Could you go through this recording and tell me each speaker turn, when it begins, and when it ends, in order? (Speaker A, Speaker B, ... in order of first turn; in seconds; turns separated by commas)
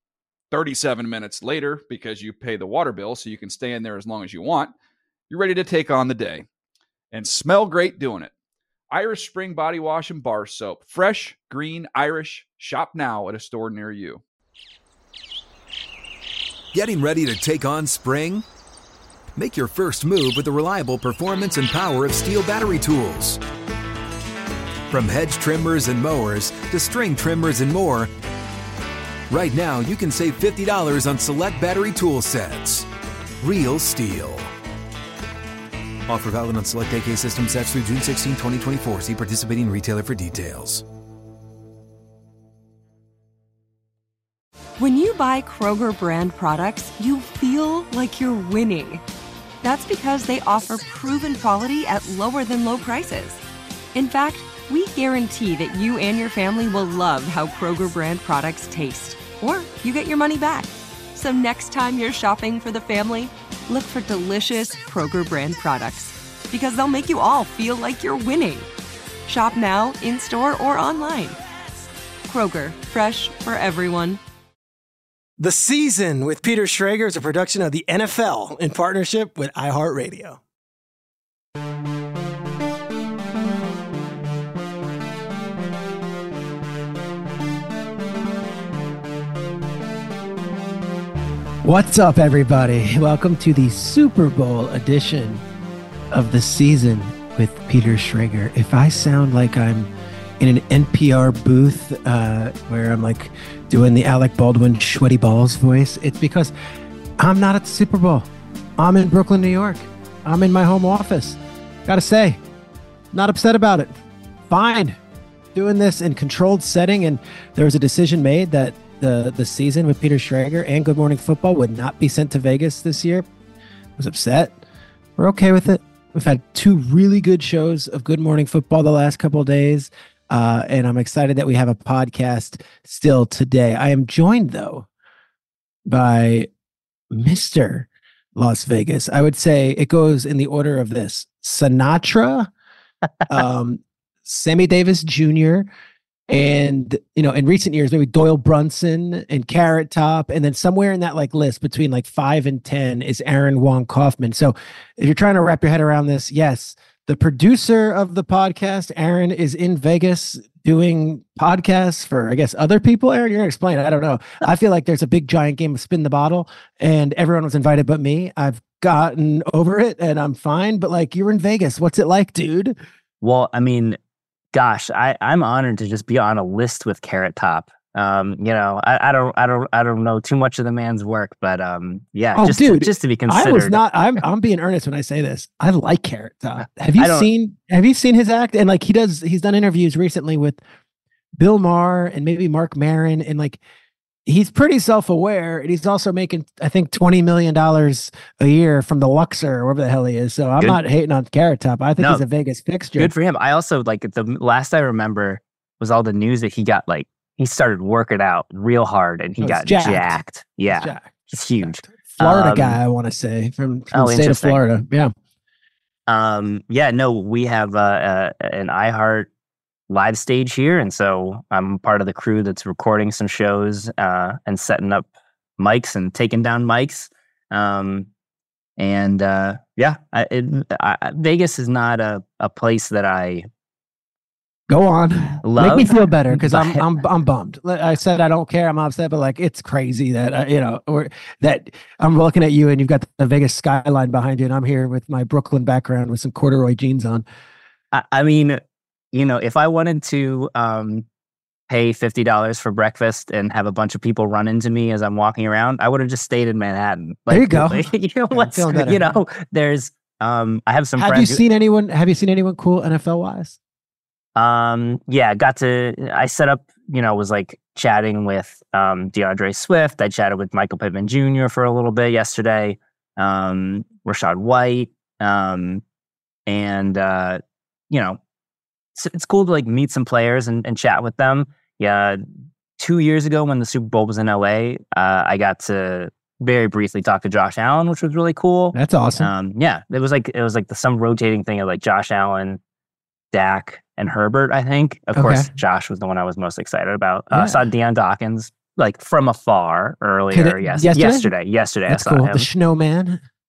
Speaker A: 0.5-4.7, Speaker A: 5.3-6.5, Speaker A: 7.1-8.3, Speaker A: 8.9-14.2, Speaker B: 16.7-18.4, Speaker B: 19.4-23.4, Speaker B: 24.9-28.1, Speaker B: 29.3-32.9, Speaker B: 33.4-34.5, Speaker B: 36.1-40.8, Speaker C: 44.8-49.0, Speaker C: 49.6-53.4, Speaker C: 53.9-68.7, Speaker C: 69.2-71.4, Speaker C: 72.2-74.2, Speaker D: 75.4-80.4, Speaker D: 91.6-95.4, Speaker D: 96.1-106.5, Speaker D: 107.2-112.4, Speaker D: 113.1-113.9, Speaker D: 114.5-115.0, Speaker D: 115.5-123.2, Speaker D: 124.0-124.6, Speaker D: 125.2-134.9, Speaker D: 135.9-136.5, Speaker D: 137.1-142.5, Speaker D: 143.3-145.7, Speaker D: 146.3-172.8, Speaker E: 173.2-174.0, Speaker E: 174.5-183.8, Speaker D: 182.3-190.6, Speaker E: 187.0-187.3, Speaker D: 191.4-193.6, Speaker D: 194.3-203.1, Speaker E: 202.0-202.2, Speaker E: 203.0-212.8, Speaker D: 209.4-215.1, Speaker E: 213.9-214.6, Speaker E: 216.1-219.3, Speaker E: 219.9-225.1, Speaker E: 225.6-228.1, Speaker E: 228.8-233.5, Speaker D: 234.7-247.2, Speaker E: 235.4-236.9, Speaker E: 247.9-248.6, Speaker E: 249.1-251.1, Speaker E: 251.7-261.4, Speaker D: 257.3-259.1, Speaker D: 261.0-263.6, Speaker E: 264.4-275.8, Speaker E: 276.5-277.4, Speaker E: 277.9-278.2, Speaker E: 278.9-282.2, Speaker E: 282.8-292.6, Speaker D: 288.7-289.3, Speaker E: 293.3-302.5, Speaker D: 295.1-295.5, Speaker D: 297.3-297.6, Speaker D: 300.3-301.3, Speaker D: 301.9-303.2